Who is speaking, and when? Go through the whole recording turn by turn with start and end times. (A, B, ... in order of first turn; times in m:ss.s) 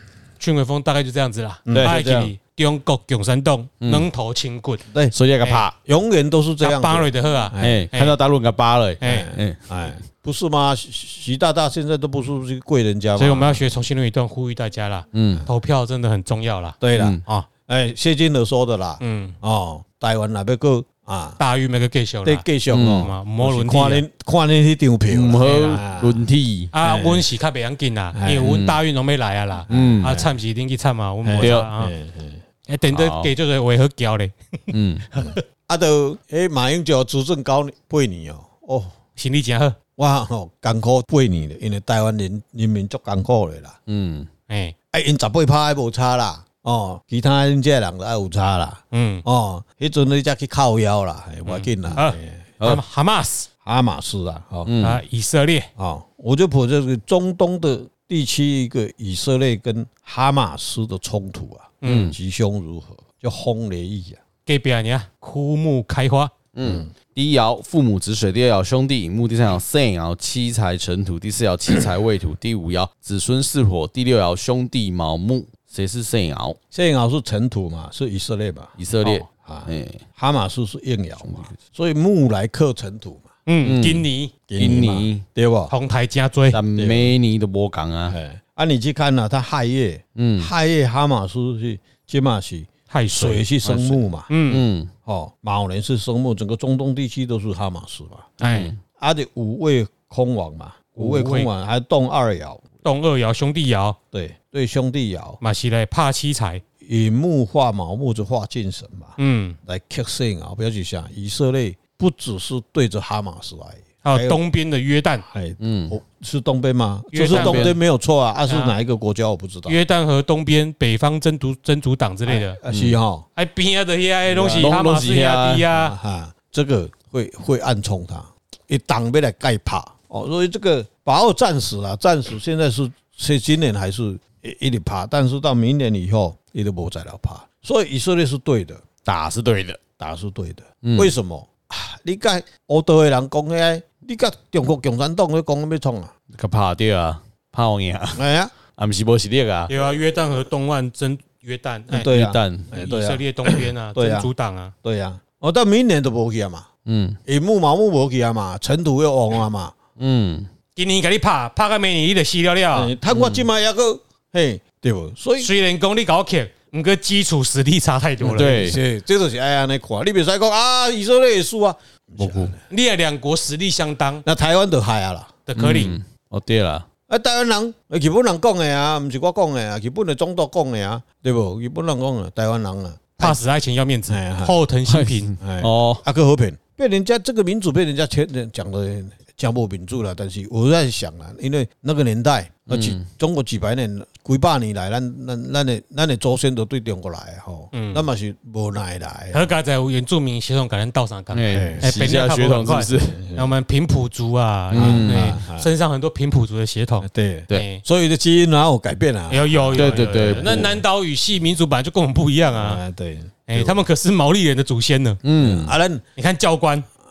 0:00.4-0:04.8 A
0:01.7-0:02.0 B
0:01.7-0:02.3 C
0:03.8-0:04.1 C
0:05.1-0:05.8 C
0:05.4-0:05.7 A
0:05.8-0:07.9 B
0:06.6-0:08.2 A
0:07.6-0:09.7 C
0:09.0-0:09.3 A
0:09.0-0:13.6 B
0:13.2-0:17.5 A
0:15.1-0:15.5 C
0:16.8-0:21.4 B
0:17.0-0:17.2 C
0:19.0-0:19.4 A
0:21.4-0:24.0 A
0:22.2-0:26.2 B
0:22.7-0:23.1 C
0:25.1-0:26.7 C
0:25.3-0:25.8 A
0:26.7-0:31.9 A
0:26.8-0:27.3 B
0:28.2-0:28.5 B
0:28.4-0:28.8 C
0:29.7-0:30.4 B
0:29.7-0:30.2 C
0:31.2-0:32.4 B
0:31.4-0:31.7 C
0:32.7-0:35.4 A
0:32.9-0:33.3 C
0:34.7-0:35.1 C
0:35.7-0:38.9 B
0:39.2-0:39.8 A
0:40.0-0:43.8 B
0:43.9-0:44.3 C
0:44.5-0:44.8 A
0:44.9-0:52.5 B
0:48.9-0:49.2 A
0:51.5-0:53.5 A
0:53.6-0:54.8 B
0:54.6-0:55.0 C
0:54.8-0:55.7 A
0:55.8-1:04.2 B
1:01.8-1:02.1 A
1:01.8-1:02.2 C
1:04.5-1:06.3 A
1:06.5-1:16.6 C
1:06.6-1:06.9 B
1:16.7-1:23.3 B
1:18.8-1:20.0 C
1:21.2-1:21.6 C
1:23.5-1:24.3 A
1:23.6-1:24.0 C
1:24.5-1:25.7 B
1:24.6-1:25.2 C
1:25.7-1:26.6 A
1:26.5-1:28.2 C
1:26.8-1:27.2 B
1:28.1-1:34.4 B
1:30.2-1:30.5 C
1:32.9-1:34.6 A
1:33.7-1:34.0 C
1:34.5-1:34.9 C
1:35.0-1:38.3 B
1:38.4-1:38.7 A
1:38.4-1:38.8 C
1:39.0-1:42.6 B
1:41.0-1:41.5 A
1:42.8-1:44.0 A
1:44.1-1:45.4 B
1:45.4-1:46.6 A
1:46.8-1:54.4 B
1:49.2-1:49.6 A
1:54.0-1:55.2 A
1:55.3-1:59.8 B
1:55.6-1:56.0 C
1:57.1-1:57.7 A
1:57.2-1:57.8 C
1:58.5-1:58.7 A
1:59.7-2:02.6 A
2:02.3-2:03.3 B
2:02.7-2:03.0 C
2:03.4-2:06.0 A
2:04.3-2:04.7 B
2:04.5-2:05.6 C
2:05.7-2:18.8 B
2:19.0-2:19.8 C
2:20.0-2:26.1 B
2:20.8-2:21.1 C
2:26.3-2:28.2 C
2:28.2-2:28.5 B
2:28.7-2:29.7 C
2:29.7-2:32.1 A
2:31.9-2:34.3 B
2:32.0-2:32.7 C
2:32.7-2:34.7 A
2:34.8-2:36.7 B
2:36.9-2:37.2 C
2:37.3-2:39.7 B
2:40.0-2:40.5 C
2:40.8-2:42.9 A
2:42.7-2:45.5 B
2:43.1-2:43.5 C
2:45.4-2:48.7 A
2:48.2-2:48.8 C
2:48.2-2:52.6 B
2:52.2-2:52.5 C
2:52.7-2:54.2 A
2:54.2-2:55.3 B
2:55.5-2:55.9 A
2:55.6-2:56.9 C
2:57.1-3:03.4 B
3:03.2-3:05.4 A
3:04.1-3:04.6 B
3:04.9-3:06.0 C
3:05.4-3:19.5 B
3:12.7-3:13.0 C
3:17.7-3:18.1 A
3:19.3-3:27.8 A
3:21.3-3:23.2 C
3:21.5-3:21.9 B
3:23.1-3:23.5 B
3:24.7-3:25.4 C
3:24.7-3:25.7 B
3:27.0-3:30.8 B
3:29.3-3:32.8 A
3:29.8-3:30.7 C
3:32.5-3:33.8 B
3:33.5-3:35.2 A
3:35.2-3:35.7 C
3:35.4-3:36.0 B
3:36.2-3:36.9 A